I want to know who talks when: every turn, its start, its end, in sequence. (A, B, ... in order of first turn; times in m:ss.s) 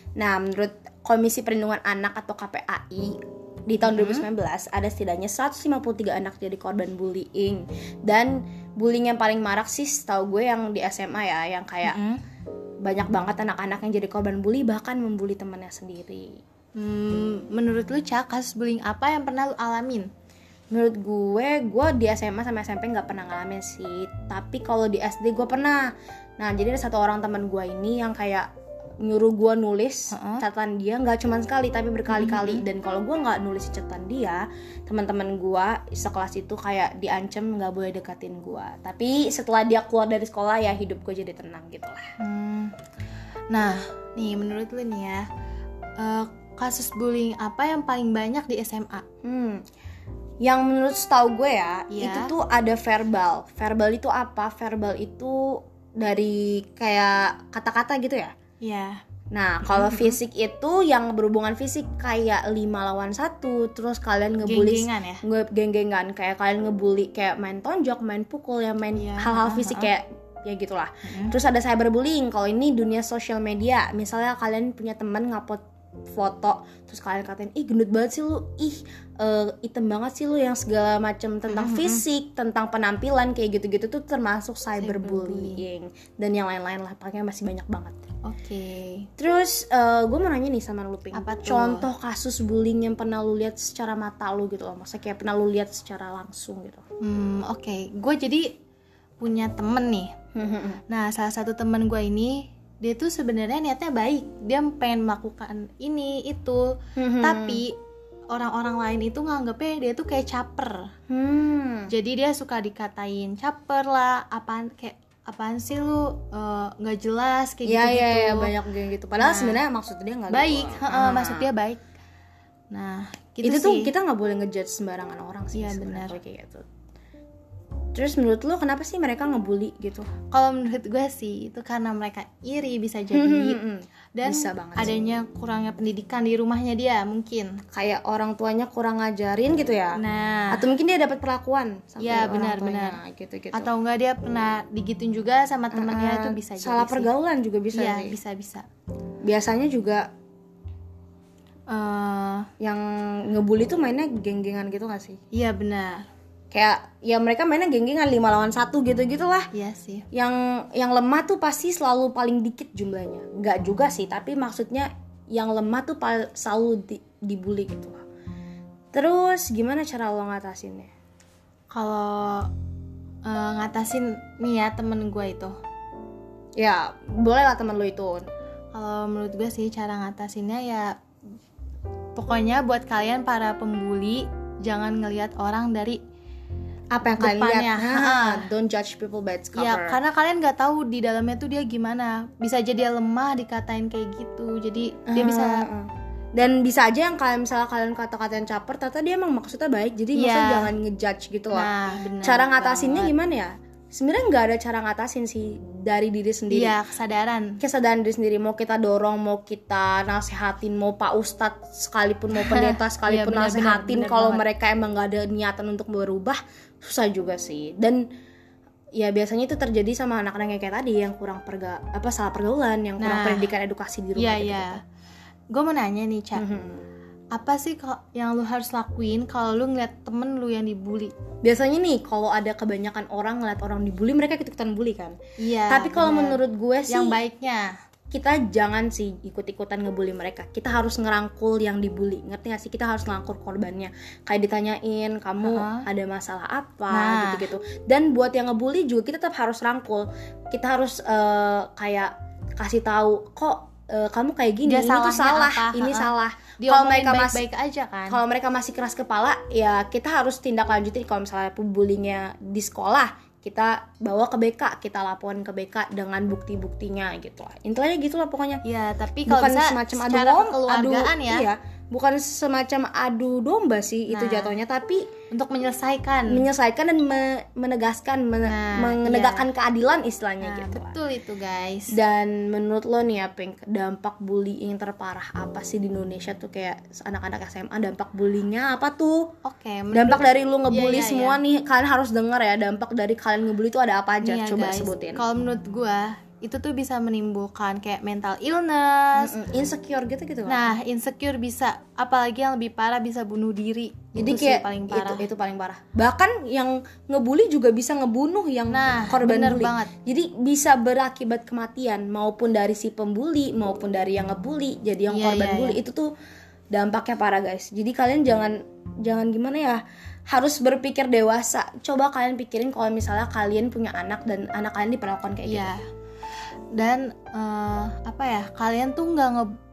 0:00.2-0:12.0 A
0:03.9-0:04.2 B
0:11.8-0:12.2 B
0:12.8-0:16.4 A
0:16.8-0:20.1 B
0:20.7-0:28.5 A
0:29.0-0:42.0 A
0:30.1-0:30.4 B
0:32.1-0:32.6 B
0:42.2-0:42.7 B
0:43.5-0:45.3 B
0:46.0-0:49.0 B
0:49.2-0:49.6 A
0:50.4-0:58.3 A
0:51.9-0:52.3 B
0:58.6-0:59.0 B
0:59.3-1:28.0 A
0:59.6-1:00.2 B
1:04.4-1:05.2 B
1:09.0-1:09.9 B
1:11.1-1:11.3 B
1:21.5-1:22.0 B
1:24.8-1:25.6 B
1:28.2-1:29.1 B
1:29.2-1:36.8 A
1:31.2-1:31.9 B
1:37.0-1:38.5 B
1:39.2-1:40.1 B
1:40.3-1:40.8 A
1:40.9-1:47.8 B
1:47.0-1:47.6 A
1:48.3-1:50.9 B
1:51.1-1:51.9 A
1:51.9-1:58.5 B
1:57.7-2:01.5 A
1:59.2-1:59.6 B
2:00.3-2:01.8 B
2:02.7-2:03.9 B
2:03.4-2:06.6 A
2:05.5-2:06.2 B
2:07.9-2:10.1 A
2:10.3-2:13.6 B
2:13.1-2:14.9 A
2:14.2-2:17.6 B
2:17.7-2:23.7 A
2:19.9-2:20.7 B
2:22.0-2:23.0 B
2:23.5-2:27.1 B
2:25.7-2:28.2 A
2:27.7-2:28.6 B
2:29.2-2:30.1 A
2:31.7-2:32.5 B
2:32.6-2:35.2 A
2:35.3-2:36.0 B
2:36.5-2:39.5 A
2:39.5-2:40.0 B
2:40.1-2:48.0 A
2:48.9-2:50.9 A
2:51.7-2:52.5 B
2:53.2-2:55.5 B
2:56.6-2:58.3 A
2:58.7-3:01.0 B
3:02.2-3:06.0 B
3:06.9-3:10.0 A
3:07.0-3:08.5 B
3:09.5-3:15.7 B
3:15.1-3:26.8 A
3:20.1-3:20.7 B
3:21.5-3:23.1 B
3:26.5-3:27.6 B
3:27.6-3:38.0 A
3:32.4-3:34.4 B
3:38.9-3:44.8 A
3:43.0-3:43.5 B
3:44.2-3:44.8 B
3:45.5-3:46.4 B
3:46.3-3:46.8 A
3:47.3-3:51.1 B
3:51.4-3:55.2 A
3:55.4-3:57.8 B
3:55.7-3:57.2 A
3:58.1-4:17.4 A
4:05.4-4:05.8 B
4:06.9-4:07.4 B
4:14.6-4:18.2 B
4:18.1-4:28.6 A
4:28.6-4:31.5 B
4:29.3-4:35.1 A
4:34.1-4:34.6 B
4:35.3-4:36.5 B
4:36.3-4:41.0 A
4:38.4-4:39.5 B
4:40.4-4:42.0 B
4:41.9-4:49.3 A
4:49.4-4:51.4 B
4:49.9-4:55.2 A
4:54.2-4:59.4 B
4:59.2-5:00.7 A
5:00.5-5:05.2 B
5:04.2-5:16.1 A
5:08.7-5:09.9 B
5:15.1-5:15.8 B
5:16.7-5:25.7 A
5:25.5-5:25.8 B
5:26.8-5:29.5 B